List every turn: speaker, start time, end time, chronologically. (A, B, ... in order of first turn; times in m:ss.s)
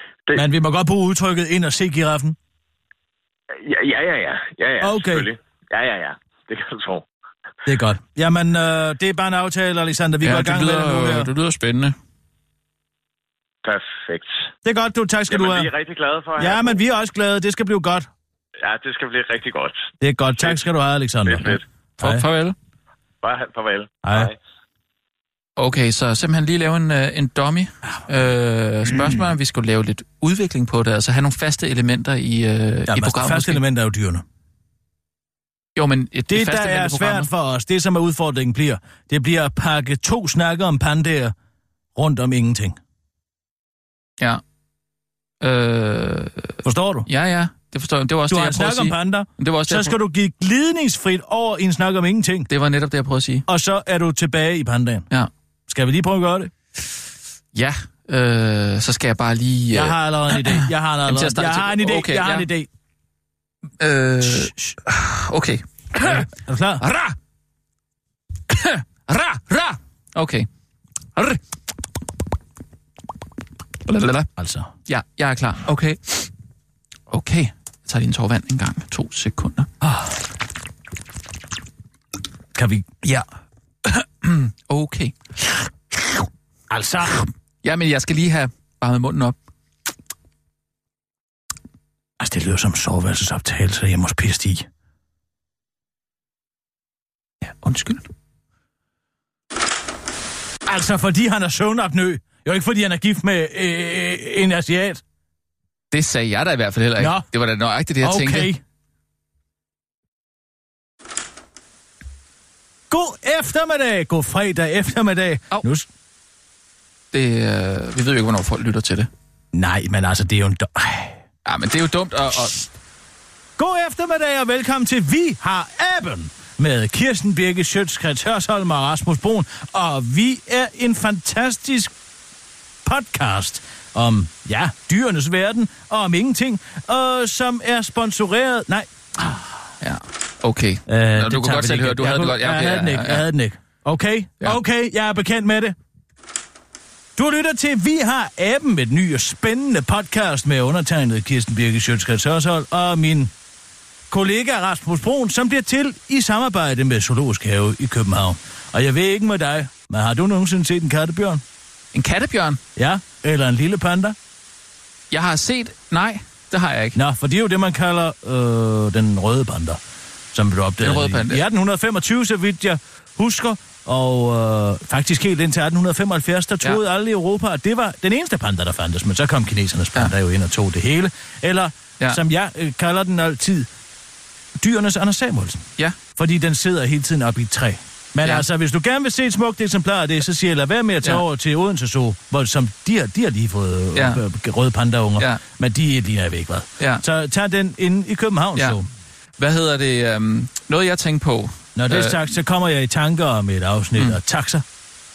0:00.3-0:02.4 A
0:03.6-0:07.0 B
0:04.8-0:05.3 A
0:07.6-0:11.3 A
0:10.2-0:11.9 C
0:13.6-0:14.5 B
0:14.6-0:15.7 A
0:15.3-0:16.8 B
0:16.4-0:18.1 A
0:18.6-0:20.6 B
0:20.0-0:22.2 A
0:21.2-0:21.6 B
0:22.0-0:22.5 C
0:23.2-0:24.4 B
0:24.0-0:24.3 A
0:25.6-0:33.6 C
0:28.8-0:29.2 A
0:32.9-0:34.2 A
0:35.8-0:37.3 C
0:36.3-0:41.3 A
0:41.9-0:42.8 A
0:45.4-0:46.6 C
0:46.6-0:47.1 A
0:47.1-0:49.9 C
0:48.3-0:52.5 A
0:52.5-0:53.4 C
0:53.5-0:55.1 A
0:55.7-0:56.5 A
0:57.5-1:02.5 C
0:59.7-1:02.7 A
1:03.8-1:06.3 C
1:06.0-1:06.8 A
1:06.8-1:07.2 C
1:08.5-1:10.5 C
1:13.9-1:14.3 C
1:14.4-1:14.7 A
1:14.9-1:16.3 C
1:17.1-1:19.7 C
1:19.8-1:20.1 A
1:22.5-1:22.9 A
1:23.8-1:25.2 C
1:26.7-1:27.3 A
1:27.6-1:29.3 C
1:32.2-1:34.7 A
1:37.6-1:38.0 C
1:40.6-1:45.0 A
1:45.9-1:48.5 C
1:47.0-1:47.2 A
1:48.0-1:48.6 A
1:52.9-1:55.9 A
1:57.1-1:59.1 C
1:59.5-2:01.2 A
2:01.4-2:02.7 C
2:03.6-2:11.9 A
2:12.8-2:19.6 A
2:19.8-2:23.2 C
2:20.9-2:25.8 A
2:27.2-2:33.3 A
2:34.1-2:41.4 A
2:41.9-2:42.6 C
2:42.8-2:44.2 A
2:45.1-2:47.0 C
2:46.9-2:49.8 A
2:50.3-3:03.7 A
2:50.8-2:51.4 C
3:04.6-3:18.8 A
3:13.9-3:14.2 C
3:19.4-3:22.2 C
3:21.8-3:24.6 A